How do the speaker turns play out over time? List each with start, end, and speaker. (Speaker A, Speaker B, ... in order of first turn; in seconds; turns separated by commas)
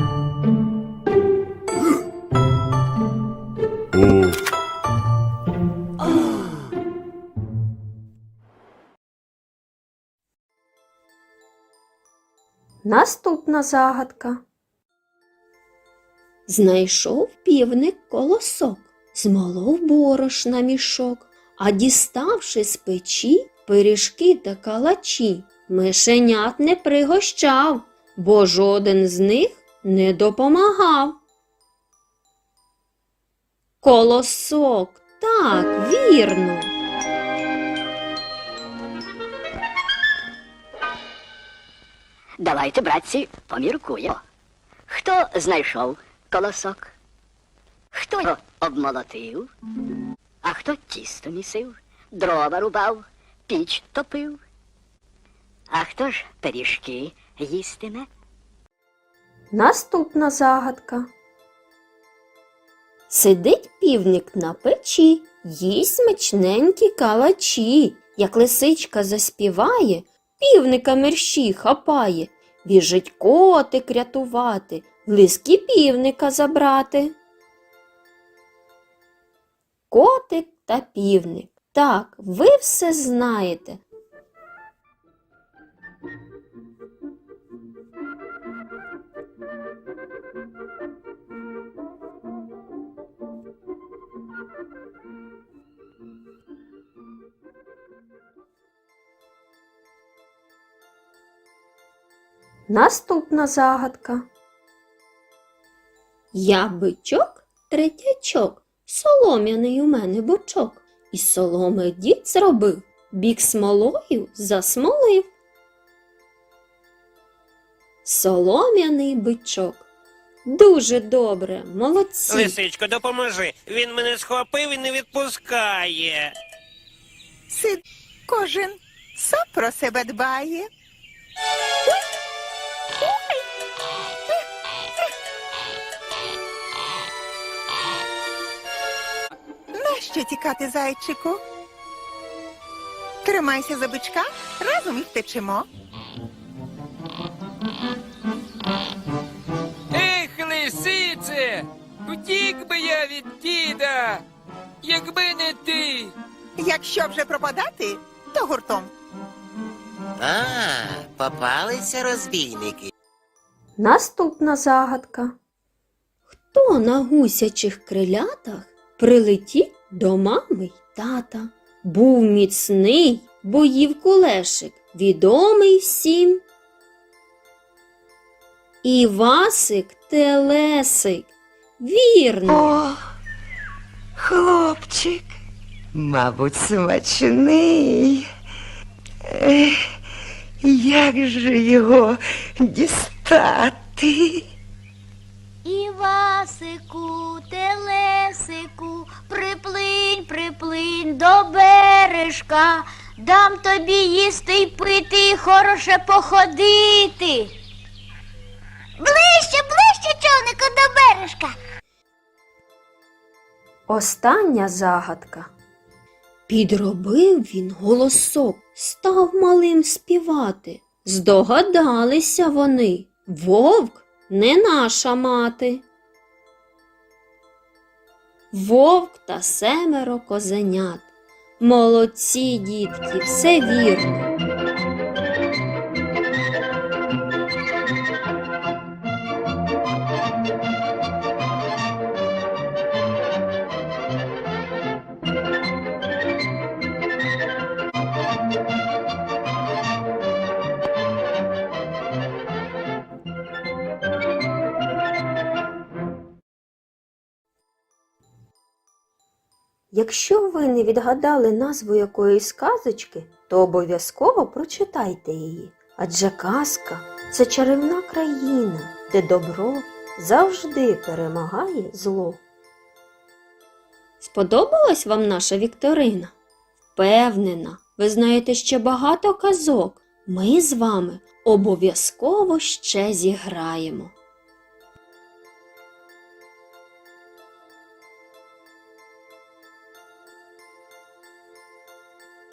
Speaker A: 12.8-14.4, Speaker A: 16.5-31.2, Speaker A: 33.8-36.7, Speaker B: 42.4-44.2, Speaker B: 44.9-47.0, Speaker B: 47.9-49.5, Speaker B: 50.4-54.4, Speaker B: 55.7-58.1, Speaker A: 59.5-61.1, Speaker A: 63.1-77.2, Speaker A: 79.9-83.8, Speaker A: 102.7-104.2, Speaker A: 106.3-115.3, Speaker A: 118.0-119.9, Speaker A: 120.5-122.5, Speaker C: 122.3-126.3, Speaker D: 127.5-130.7, Speaker D: 139.7-141.4, Speaker D: 143.2-145.7, Speaker E: 149.9-154.2, Speaker E: 154.8-156.1, Speaker D: 156.6-158.9, Speaker F: 160.2-162.9, Speaker A: 163.8-165.3, Speaker A: 166.3-176.4, Speaker A: 178.8-182.7, Speaker G: 182.5-183.0, Speaker G: 184.2-185.3, Speaker G: 185.9-188.3, Speaker G: 189.3-189.8, Speaker G: 190.6-194.4, Speaker H: 195.6-207.5, Speaker H: 209.0-211.5, Speaker A: 213.9-215.5, Speaker A: 216.5-225.8, Speaker A: 228.5-231.1, Speaker A: 231.6-234.3, Speaker A: 259.9-272.4, Speaker A: 274.2-276.3, Speaker A: 277.0-284.1